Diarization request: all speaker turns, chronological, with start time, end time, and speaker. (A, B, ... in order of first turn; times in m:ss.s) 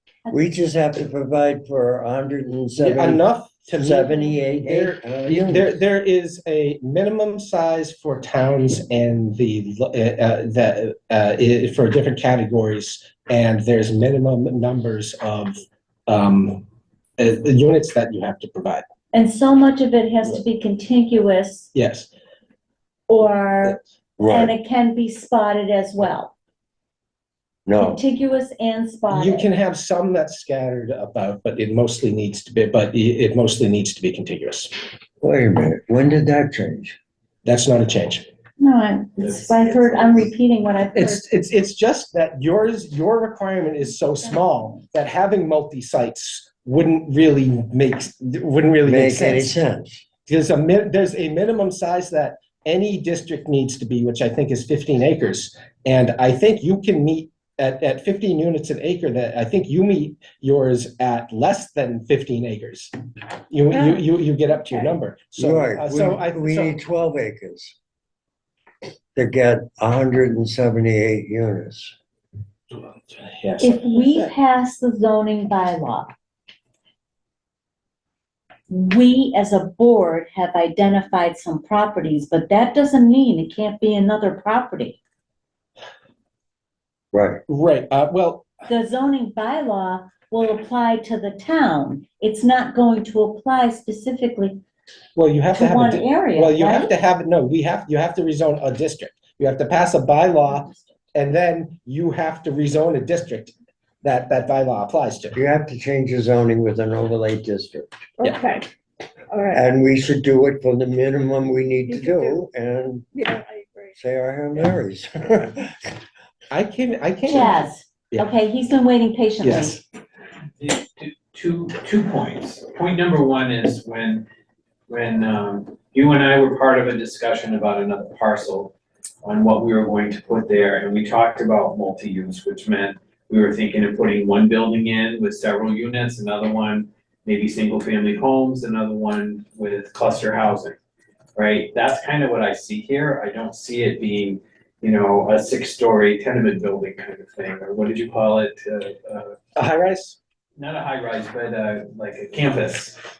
0:00.2-0:00.6 A
0:00.3-0:05.7 B
0:02.8-0:16.6 C
0:17.2-0:18.8 C
0:19.1-0:21.7 A
0:21.7-0:22.1 C
0:23.1-0:26.3 A
0:24.2-0:24.5 B
0:27.6-0:28.0 B
0:27.8-0:29.5 A
0:29.1-0:34.7 C
0:35.2-0:37.0 B
0:37.4-0:38.3 C
0:38.6-0:41.2 A
0:39.2-0:40.2 D
0:40.9-0:49.5 C
0:48.8-0:50.0 B
0:50.2-1:02.9 C
1:03.5-1:06.7 C
1:05.4-1:07.7 B
1:09.1-1:11.9 B
1:12.7-1:14.3 C
1:13.6-1:16.1 A
1:18.7-1:25.0 A
1:27.1-1:27.4 B
1:27.5-1:28.5 C
1:28.7-1:34.6 A
1:35.1-1:45.4 C
1:35.5-1:36.9 A
1:45.3-1:48.0 B
1:48.2-1:48.7 E
1:49.3-1:49.6 E
1:49.5-1:53.1 B
1:51.9-1:52.4 E
1:53.1-1:53.9 E
1:54.0-1:55.8 B
1:56.5-1:58.3 C
1:57.2-1:59.8 A
1:59.4-1:59.8 C
2:00.6-2:04.2 D
2:04.9-2:20.8 D
2:21.4-2:29.4 D
2:29.6-2:30.2 C
2:30.6-2:33.0 D